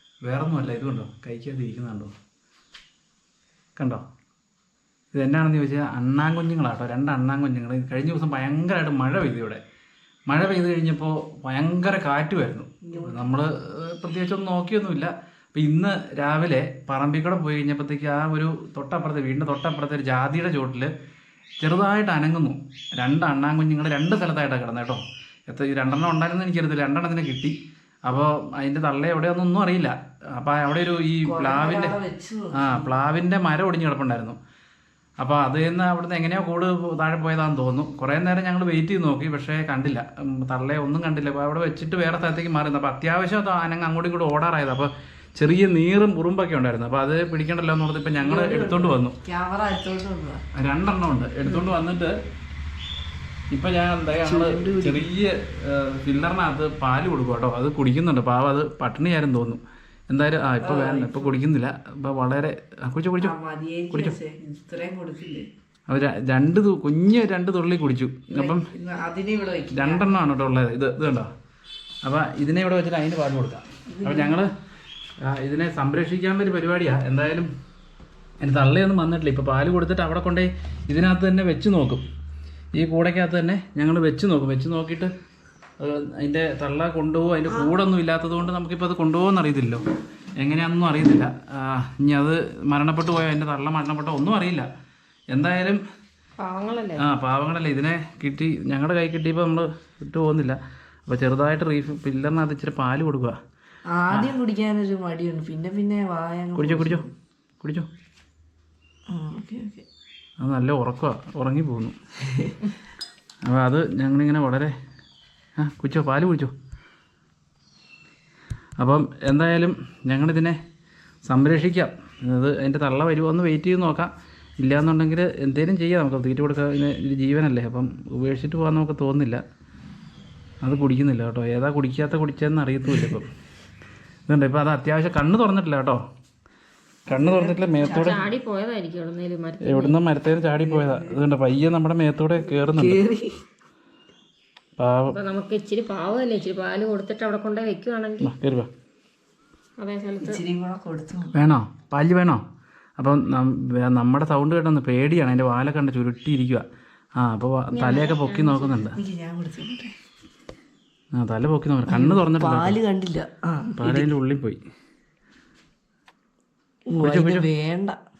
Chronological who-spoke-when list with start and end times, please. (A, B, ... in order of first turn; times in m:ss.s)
0:00.2-0:02.1 A
0:03.8-0:04.0 A
0:05.1-0:09.6 A
0:10.3-0:20.9 A
0:12.8-0:13.3 B
0:21.6-0:27.6 A
0:28.1-0:32.0 A
0:31.2-0:33.0 B
0:32.5-0:34.4 A
0:35.2-0:49.2 A
0:48.2-0:50.4 B
0:50.5-0:52.2 A
0:51.4-0:51.8 B
0:53.5-1:03.4 A
0:54.2-0:55.0 B
1:00.6-1:01.3 B
1:03.2-1:05.5 B
1:03.9-1:04.2 A
1:05.9-1:08.7 A
1:08.3-1:10.1 B
1:09.7-1:11.3 A
1:12.0-1:14.5 A
1:13.9-1:14.4 B
1:15.2-1:17.5 A
1:18.4-1:22.0 A
1:22.8-1:25.1 A
1:25.8-1:29.8 A
1:30.4-1:34.7 A
1:35.3-1:35.8 A
1:36.4-1:37.0 C
1:37.0-1:43.4 A
1:43.9-1:47.1 B
1:44.1-1:44.4 A
1:46.6-1:47.0 A
1:47.6-1:47.9 A
1:49.1-1:49.8 B
1:50.4-1:51.9 A
1:53.4-1:54.7 A
1:55.6-1:56.5 A
1:58.8-2:00.6 A
2:01.2-2:09.4 A
2:10.6-2:13.3 A
2:14.3-2:16.0 A
2:17.1-2:18.2 A
2:17.1-2:18.3 B
2:17.8-2:20.0 C
2:19.6-2:23.0 A
2:20.5-2:21.2 B
2:22.4-2:23.4 B
2:24.8-2:25.2 A
2:25.1-2:28.3 C
2:28.2-2:28.7 A
2:29.8-2:30.4 C
2:30.2-2:31.3 B
2:31.3-2:32.4 A
2:33.0-2:36.6 A
2:37.2-2:39.0 A
2:37.7-2:38.8 C
2:38.9-2:39.9 B
2:41.2-2:42.8 A
2:41.9-2:44.1 B
2:43.8-2:44.6 A
2:46.9-2:48.0 B
2:47.0-2:47.4 A